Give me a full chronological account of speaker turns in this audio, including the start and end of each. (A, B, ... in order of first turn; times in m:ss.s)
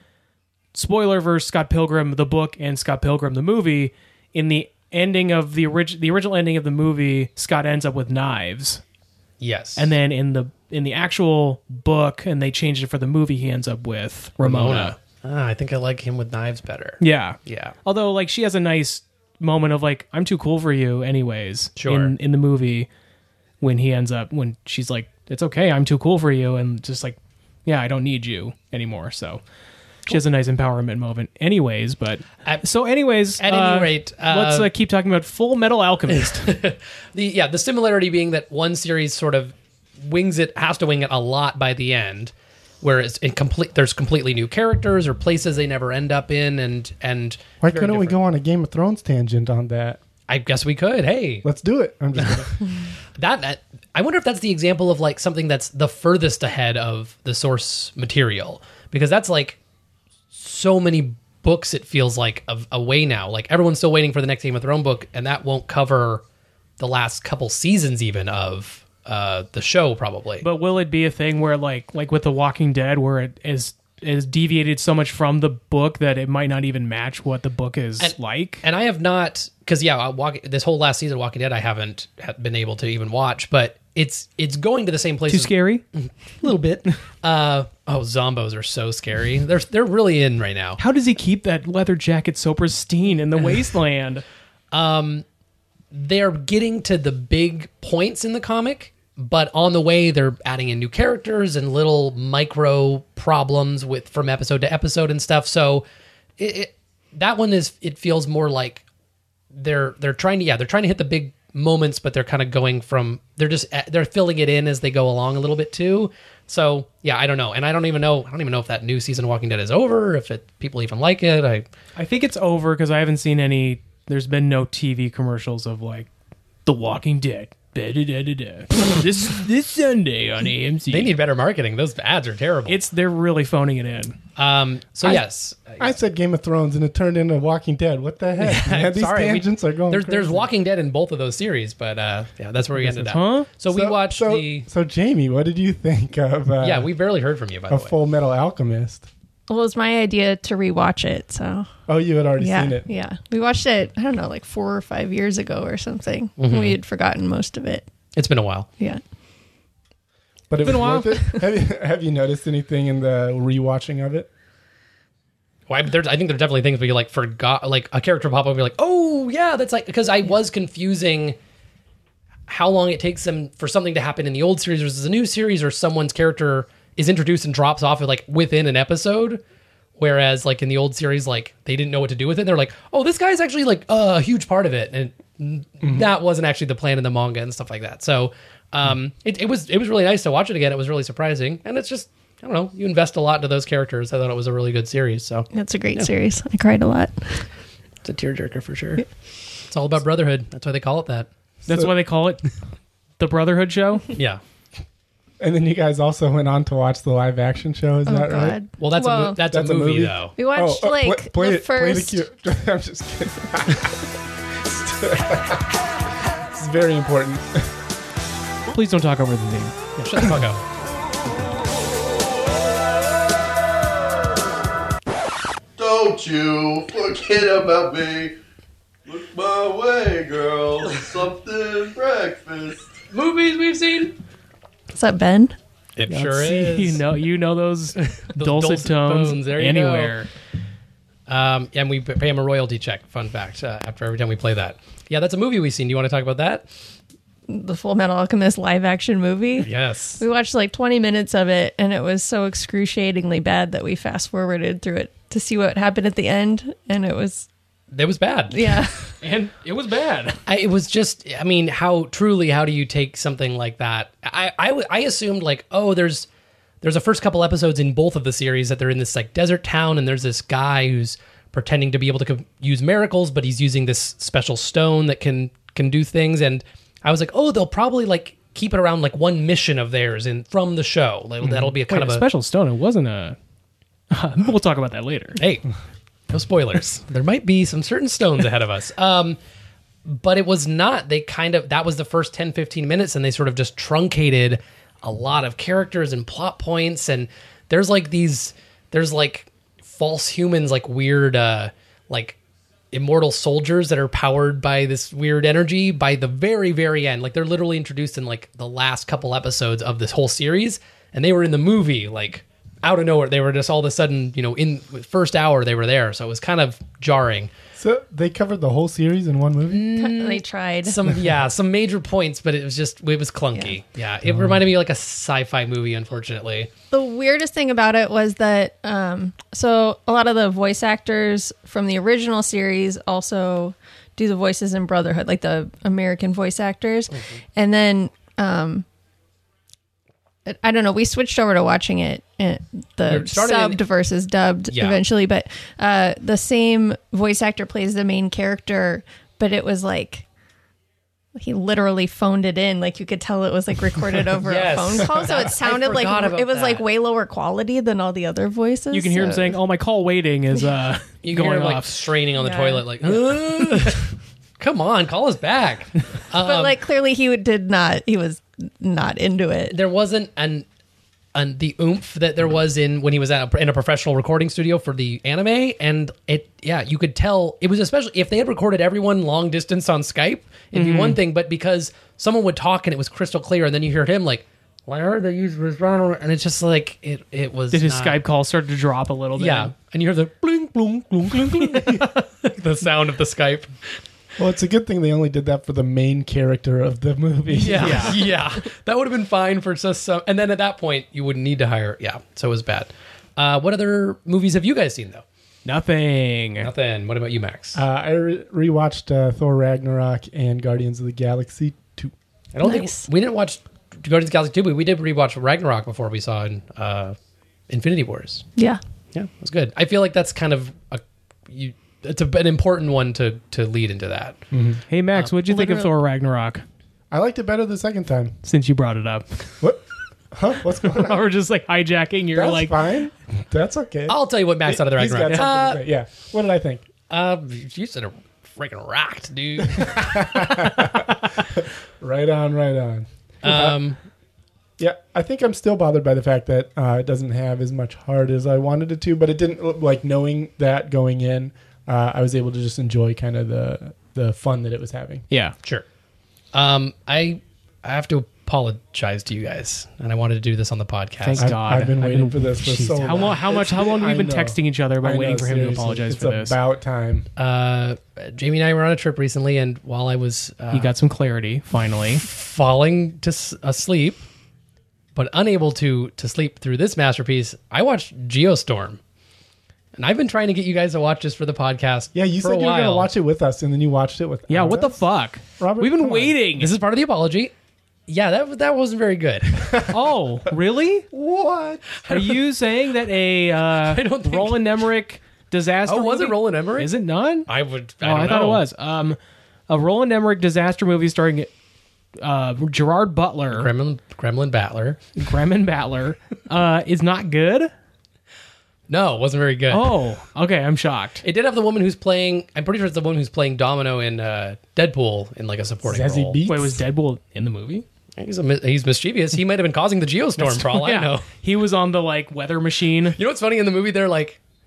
0:00.7-0:08.8 A
0:09.4-0:09.9 B
0:09.8-0:15.0 A
0:14.4-0:17.7 B
0:17.0-0:22.9 A
0:21.8-0:22.1 B
0:23.6-0:29.4 A
0:30.1-0:36.5 A
0:33.4-0:34.7 B
0:36.1-0:48.2 B
0:47.6-0:50.0 C
0:50.3-0:51.4 B
0:51.4-0:52.6 C
0:52.1-0:52.5 B
0:53.1-0:59.6 B
1:00.3-1:06.2 B
1:06.8-1:10.4 B
1:10.4-1:18.6 A
1:18.0-1:30.8 B
1:25.3-1:25.8 A
1:30.8-1:34.2 A
1:34.7-1:35.2 B
1:35.9-1:45.8 B
1:46.4-1:48.8 B
1:49.5-2:01.6 B
2:02.0-2:06.1 A
2:06.6-2:11.1 A
2:10.9-2:12.8 B
2:12.7-2:14.2 A
2:14.4-2:15.9 B
2:15.8-2:20.5 C
2:18.4-2:24.7 B
2:22.8-2:23.5 A
2:23.7-2:26.9 C
2:26.6-2:27.9 B
2:27.7-2:29.1 C
2:29.5-2:31.7 D
2:31.9-2:32.9 C
2:32.4-2:37.9 D
2:36.4-2:36.8 B
2:38.1-2:38.7 B
2:40.5-2:44.3 C
2:40.6-2:41.4 A
2:45.7-2:51.4 B
2:52.5-2:59.4 B
3:00.0-3:16.1 B
3:15.5-3:17.4 D
3:18.0-3:19.0 B
3:19.7-3:21.3 B
3:21.6-3:22.5 A
3:21.7-3:21.9 C
3:23.2-3:24.1 A
3:24.1-3:24.4 B
3:25.4-3:28.6 C
3:28.0-3:29.4 D
3:28.8-3:30.4 B
3:29.3-3:34.0 C
3:30.4-3:32.2 D
3:34.6-3:35.8 C
3:36.5-3:37.7 C
3:38.7-3:39.9 A
3:40.0-3:40.6 B
3:45.8-3:48.4 E
3:49.0-3:52.9 E
3:53.1-3:54.1 B
3:54.9-3:55.6 D
3:56.0-3:57.0 B
3:56.1-4:00.3 A
3:58.0-4:00.1 B
4:01.3-4:06.7 B
4:07.5-4:17.5 D
4:09.6-4:10.2 B
4:17.9-4:18.8 B
4:18.5-4:19.0 D
4:19.2-4:20.4 A
4:20.4-4:26.3 B
4:26.8-4:42.2 B
4:41.6-4:43.4 A
4:44.1-4:45.4 A
4:45.4-4:45.6 B
4:46.3-4:49.4 B
4:50.0-5:02.4 B
5:02.9-5:17.5 B
5:17.8-5:19.9 C
5:19.7-5:26.7 B
5:20.0-5:21.1 D
5:24.3-5:24.5 C
5:26.9-5:38.8 D
5:40.4-5:50.2 D
5:43.1-5:43.8 B
5:44.7-5:45.0 B
5:51.4-5:59.5 D
5:54.4-5:56.8 B
5:58.9-6:01.9 A
6:01.2-6:06.8 B
6:02.4-6:02.8 D
6:06.4-6:09.8 D
6:09.7-6:10.6 B
6:11.3-6:28.2 B
6:20.7-6:21.2 A
6:27.7-6:29.7 A
6:29.4-6:33.7 B
6:31.7-6:32.0 A
6:34.4-6:38.2 C
6:37.5-6:45.2 B
6:37.7-6:38.2 A
6:45.6-6:46.7 A
6:46.6-6:47.8 B
6:47.7-6:52.1 C
6:52.5-6:57.2 B
6:52.6-6:53.0 D
6:57.7-6:58.4 B
6:59.1-7:04.4 B
7:04.5-7:04.8 C
7:04.9-7:06.6 A
7:05.5-7:05.9 D
7:07.1-7:08.3 C
7:08.4-7:09.6 A
7:09.6-7:11.2 C
7:10.9-7:12.8 A
7:12.3-7:16.9 C
7:14.1-7:15.8 B
7:17.1-7:20.9 B
7:19.7-7:23.8 C
7:23.4-7:24.0 B
7:24.8-7:35.2 C
7:36.5-7:41.5 B
7:41.2-7:46.5 A
7:41.4-7:47.3 C
7:47.4-7:50.9 B
7:50.7-7:52.2 A
7:52.2-7:54.2 B
7:55.1-7:59.0 B
8:00.0-8:03.1 B
8:02.1-8:05.0 C
8:04.5-8:06.7 A
8:05.6-8:06.4 C
8:06.6-8:07.5 B
8:08.1-8:09.9 B
8:09.9-8:11.1 A
8:11.1-8:11.9 C
8:12.0-8:12.3 B
8:12.1-8:17.5 A
8:13.8-8:14.8 B
8:15.8-8:16.9 B
8:17.5-8:18.6 B
8:18.0-8:19.2 A
8:19.7-8:21.5 A
8:22.2-8:23.7 A
8:23.5-8:25.0 B
8:25.2-8:27.7 A
8:28.9-8:29.9 B
8:29.7-8:31.2 A
8:31.2-8:36.4 B
8:35.8-8:36.8 C
8:36.5-8:37.8 A
8:38.2-8:41.2 B
8:40.4-8:43.2 A
8:43.1-8:44.4 B